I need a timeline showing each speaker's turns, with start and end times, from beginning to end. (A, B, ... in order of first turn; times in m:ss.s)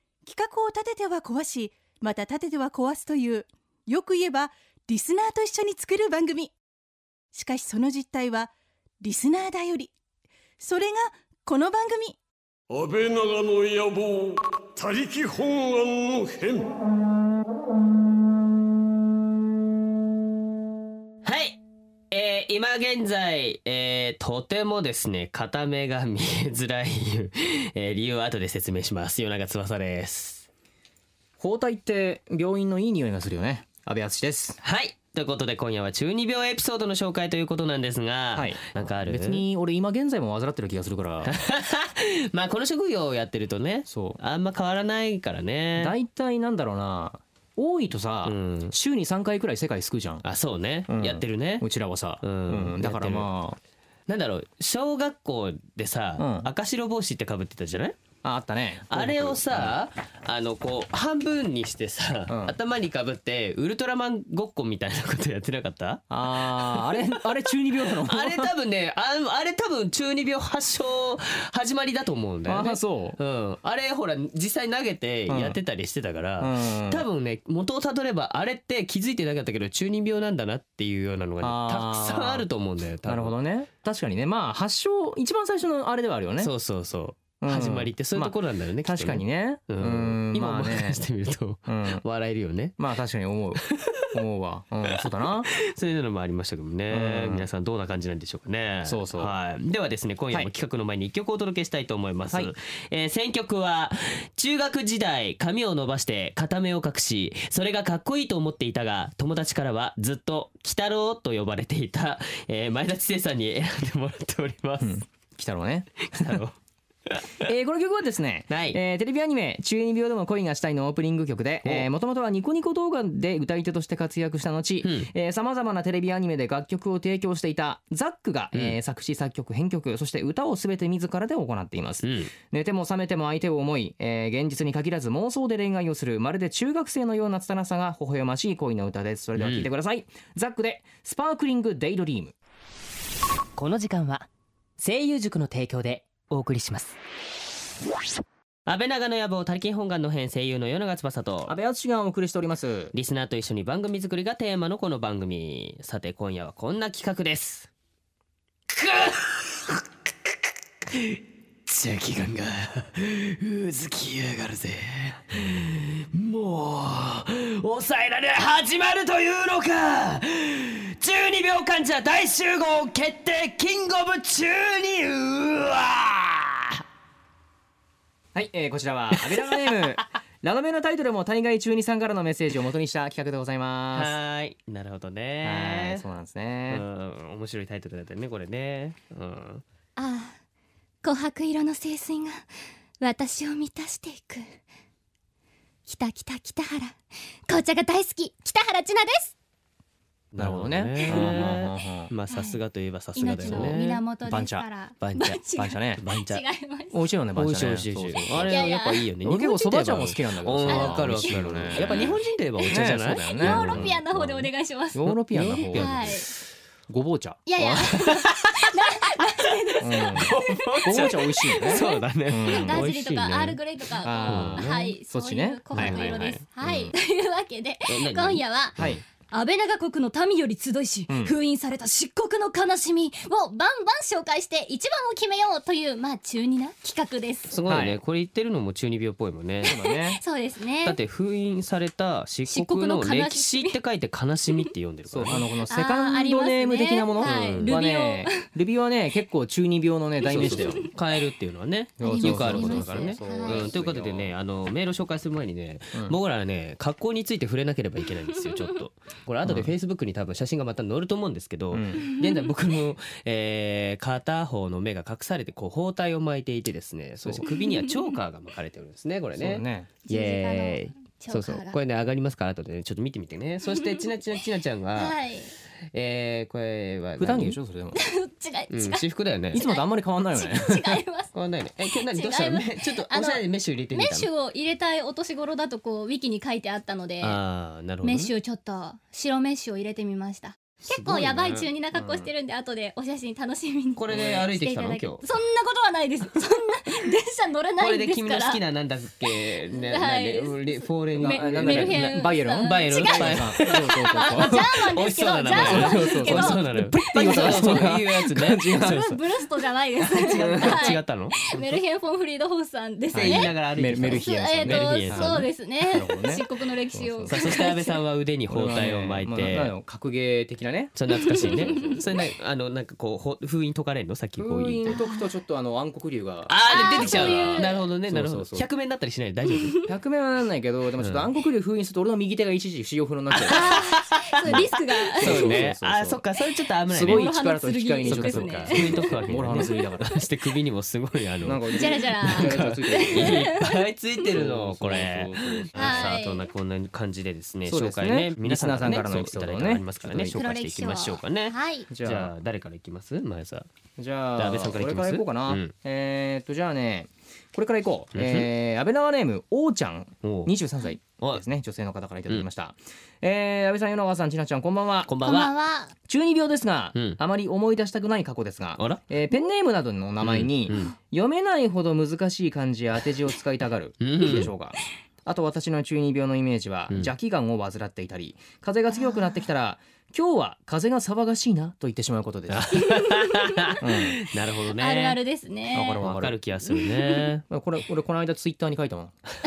0:00.2-0:06.5 A
0:07.3-0:08.5 A
0:09.0-0:09.9 A
0:10.6-0:12.2 A
0:12.7-0:16.7 B
0:21.2-0:21.6 C
0:22.1-0:30.5 C
0:31.4-0:34.6 D
0:34.6-0:39.4 C
0:38.3-0:41.4 D
0:41.2-0:45.9 C
0:43.9-0:44.2 D
0:45.8-0:50.2 D
0:48.2-0:48.7 C
0:50.2-0:51.7 C
0:50.9-0:53.6 D
0:52.2-0:53.3 C
0:54.1-0:58.0 C
0:56.2-0:56.5 D
0:58.2-0:59.7 D
0:58.9-1:07.2 C
1:02.3-1:02.6 D
1:06.1-1:08.5 D
1:07.8-1:23.3 C
1:12.4-1:13.2 D
1:15.3-1:15.6 D
1:16.4-1:17.0 D
1:21.4-1:22.5 D
1:23.0-1:26.5 D
1:26.4-1:32.8 C
1:27.4-1:31.0 D
1:31.7-1:32.0 D
1:32.8-1:35.5 D
1:33.6-1:34.1 C
1:35.5-1:55.0 C
1:36.9-1:37.5 D
1:38.8-1:39.3 D
1:54.8-1:56.4 D
1:56.1-1:56.5 C
1:57.1-1:57.5 C
1:57.4-2:22.3 D
1:58.5-1:58.8 C
2:04.8-2:05.1 C
2:12.0-2:12.3 C
2:19.4-2:19.7 C
2:23.6-2:24.3 E
2:24.8-2:27.0 E
2:28.7-2:31.5 C
2:31.4-2:32.9 D
2:32.9-2:37.7 C
2:38.7-2:40.4 C
2:40.9-2:56.8 C
2:58.3-3:04.2 D
2:59.2-2:59.7 C
3:03.9-3:06.0 C
3:05.4-3:06.8 D
3:06.7-3:09.6 C
3:10.0-3:10.4 F
3:11.0-3:12.4 F
3:13.0-3:14.5 F
3:15.9-3:19.3 F
3:20.3-3:24.0 C
3:20.4-3:22.1 D
3:21.1-3:21.4 F
3:22.3-3:22.6 F
3:23.1-3:27.0 F
3:23.4-3:24.6 D
3:25.0-3:25.4 C
3:25.6-3:26.0 D
3:26.0-3:26.4 C
3:26.9-3:28.7 D
3:27.4-3:34.5 C
3:28.4-3:29.0 F
3:29.2-3:34.0 D
3:30.7-3:35.0 F
3:34.9-3:36.1 D
3:35.0-3:36.2 C
3:35.7-3:36.3 F
3:36.9-3:37.4 D
3:37.4-3:48.8 F
3:37.6-3:43.6 C
3:39.8-3:42.9 D
3:44.0-3:46.9 D
3:44.2-3:45.0 C
3:45.7-3:46.4 C
3:47.9-3:49.0 C
3:48.8-3:49.0 D
3:49.3-3:57.5 F
3:51.1-3:51.4 D
3:57.5-3:59.7 C
3:57.6-3:58.0 D
3:59.6-4:00.2 D
3:59.6-4:01.0 F
4:00.8-4:05.4 C
4:02.5-4:03.7 F
4:05.1-4:10.8 D
4:05.7-4:08.4 F
4:07.2-4:07.8 C
4:10.2-4:10.9 F
4:10.3-4:35.2 C
4:12.0-4:14.3 D
4:12.0-4:13.7 F
4:19.4-4:19.7 D
4:21.7-4:22.0 D
4:27.2-4:27.5 D
4:29.4-4:29.9 D
4:30.1-4:31.8 F
4:33.7-4:34.0 F
4:34.9-4:35.5 F
4:35.9-4:37.6 C
4:37.2-4:38.0 D
4:37.9-4:41.3 F
4:38.7-4:39.6 C
4:39.5-4:41.0 D
4:41.3-4:44.3 C
4:42.1-4:47.4 F
4:47.2-4:48.3 C
4:48.0-4:58.6 F
4:50.9-4:52.2 C
4:54.0-4:55.2 C
4:54.1-4:54.4 D
4:57.8-5:09.2 C
4:59.2-5:07.9 F
5:01.2-5:04.9 D
5:05.5-5:09.2 D
5:08.7-5:13.6 F
5:10.0-5:10.9 D
5:10.2-5:11.8 C
5:13.1-5:17.6 D
5:13.1-5:15.5 C
5:14.1-5:18.0 F
5:17.3-5:19.7 C
5:18.5-5:22.2 D
5:21.0-5:24.9 C
5:21.1-5:22.0 F
5:24.4-5:28.7 D
5:24.9-5:25.2 F
5:26.5-5:29.8 C
5:26.7-5:27.8 F
5:29.5-5:29.9 F
5:29.8-5:33.7 D
5:31.0-5:31.3 C
5:33.3-5:37.3 C
5:33.4-5:35.6 F
5:35.2-5:36.2 D
5:36.9-5:40.1 D
5:37.1-5:39.8 F
5:38.0-5:53.7 C
5:41.4-5:43.5 D
5:41.7-5:43.8 F
5:44.3-5:46.2 D
5:45.7-5:46.5 F
5:47.6-5:50.4 D
5:50.3-5:51.9 F
5:51.9-5:52.3 D
5:54.0-6:05.4 D
5:54.4-5:55.7 C
5:58.1-5:58.5 C
6:00.2-6:00.5 C
6:05.1-6:05.5 C
6:05.2-6:05.9 F
6:06.1-6:22.9 D
6:06.9-6:07.2 C
6:10.2-6:10.9 C
6:14.0-6:14.5 C
6:18.9-6:19.4 F
6:22.5-6:25.2 C
6:22.9-6:23.8 F
6:23.8-6:24.2 D
6:24.8-6:26.0 F
6:25.7-6:26.4 D
6:26.0-6:27.4 C
6:27.5-6:29.1 D